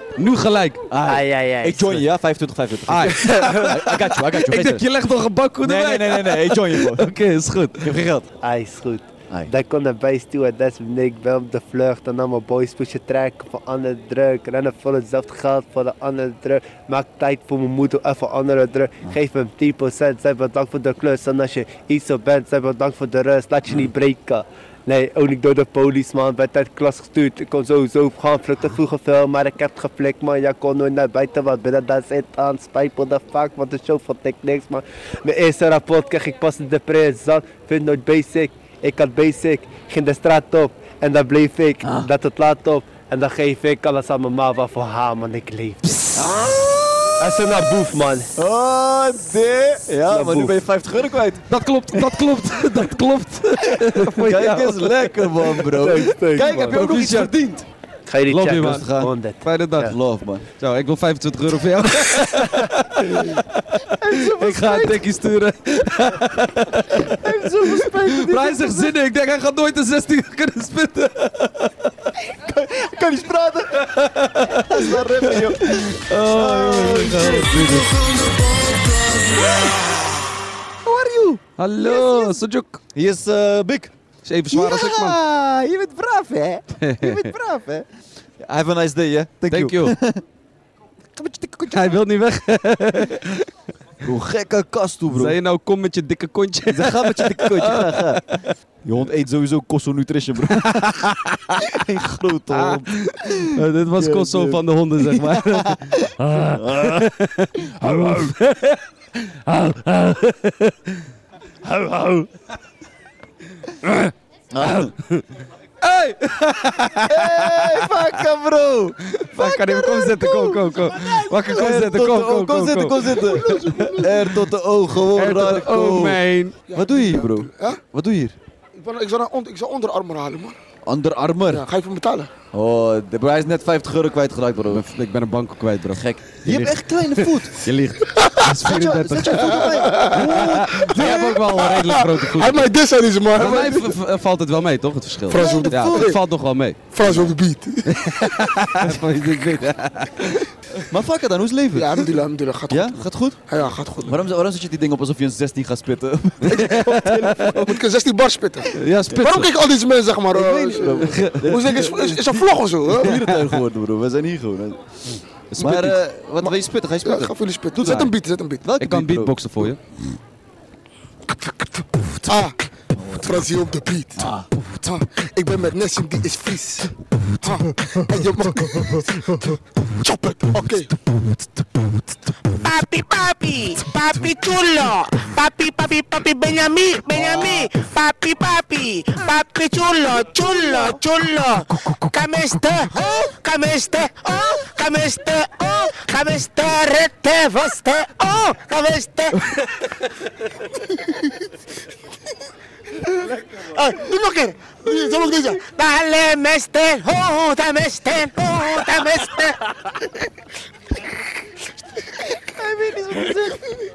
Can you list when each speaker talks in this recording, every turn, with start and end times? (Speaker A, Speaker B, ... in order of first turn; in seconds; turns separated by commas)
Speaker A: 0.2-0.9, Speaker B: 0.9-4.9, Speaker C: 1.0-2.0, Speaker A: 2.9-8.1, Speaker B: 5.6-7.1, Speaker B: 7.8-8.3, Speaker C: 8.4-46.6, Speaker B: 41.8-42.1, Speaker B: 46.1-47.2, Speaker C: 47.2-48.3, Speaker B: 48.4-52.2, Speaker C: 50.1-50.6, Speaker A: 51.5-54.2, Speaker B: 53.8-57.7, Speaker C: 54.0-54.9, Speaker C: 55.6-56.8, Speaker A: 56.6-57.4, Speaker C: 58.1-59.9, Speaker A: 58.3-58.9, Speaker B: 58.5-59.1, Speaker A: 59.4-59.9, Speaker B: 59.8-60.5, Speaker A: 60.5-71.9, Speaker B: 64.0-65.0, Speaker B: 67.0-68.9, Speaker B: 72.3-77.9, Speaker A: 73.8-77.9, Speaker B: 79.3-79.8, Speaker B: 80.8-82.4, Speaker A: 81.6-82.8, Speaker B: 82.9-83.9, Speaker A: 84.2-85.2, Speaker B: 84.5-87.9, Speaker A: 86.8-87.3, Speaker B: 88.4-90.2, Speaker A: 89.5-90.0, Speaker B: 91.2-92.0, Speaker A: 91.7-93.5, Speaker B: 94.0-95.4, Speaker A: 95.1-98.2, Speaker B: 96.7-107.1, Speaker A: 100.6-101.8, Speaker A: 102.5-108.8, Speaker B: 107.8-108.3, Speaker A: 109.5-110.9, Speaker A: 111.7-112.3, Speaker A: 113.8-115.2, Speaker B: 114.5-114.9, Speaker A: 115.8-117.9, Speaker B: 117.0-128.4, Speaker A: 119.1-124.3, Speaker D: 123.1-124.3, Speaker A: 125.1-126.5, Speaker D: 126.7-127.8, Speaker D: 128.8-130.6, Speaker B: 130.8-131.7, Speaker D: 131.5-132.3, Speaker B: 132.5-134.8, Speaker A: 134.7-142.7, Speaker B: 135.9-137.6, Speaker B: 138.6-141.1, Speaker D: 139.4-144.0, Speaker A: 143.3-147.3, Speaker D: 145.3-146.2, Speaker B: 145.4-146.1, Speaker D: 146.9-148.4, Speaker A: 147.9-150.5, Speaker B: 150.9-152.1, Speaker D: 151.7-154.2, Speaker B: 152.7-153.4, Speaker B: 154.1-157.8, Speaker A: 156.4-157.7, Speaker D: 157.5-163.2, Speaker A: 158.7-159.5, Speaker B: 160.3-162.2, Speaker A: 160.8-161.9, Speaker B: 163.0-164.8, Speaker A: 163.0-163.4, Speaker A: 165.5-166.0, Speaker B: 165.6-168.1, Speaker D: 166.4-168.7, Speaker A: 167.8-168.1, Speaker B: 168.6-169.7, Speaker A: 168.8-169.8, Speaker D: 172.2-172.6, Speaker B: 172.9-173.5, Speaker D: 173.2-176.9, Speaker B: 174.2-174.5, Speaker D: 177.4-180.9, Speaker E: 182.6-199.4, Speaker D: 187.2-187.7, Speaker D: 190.3-191.0, Speaker D: 203.2-205.7, Speaker E: 205.5-209.6, Speaker D: 208.7-209.6, Speaker B: 212.6-213.6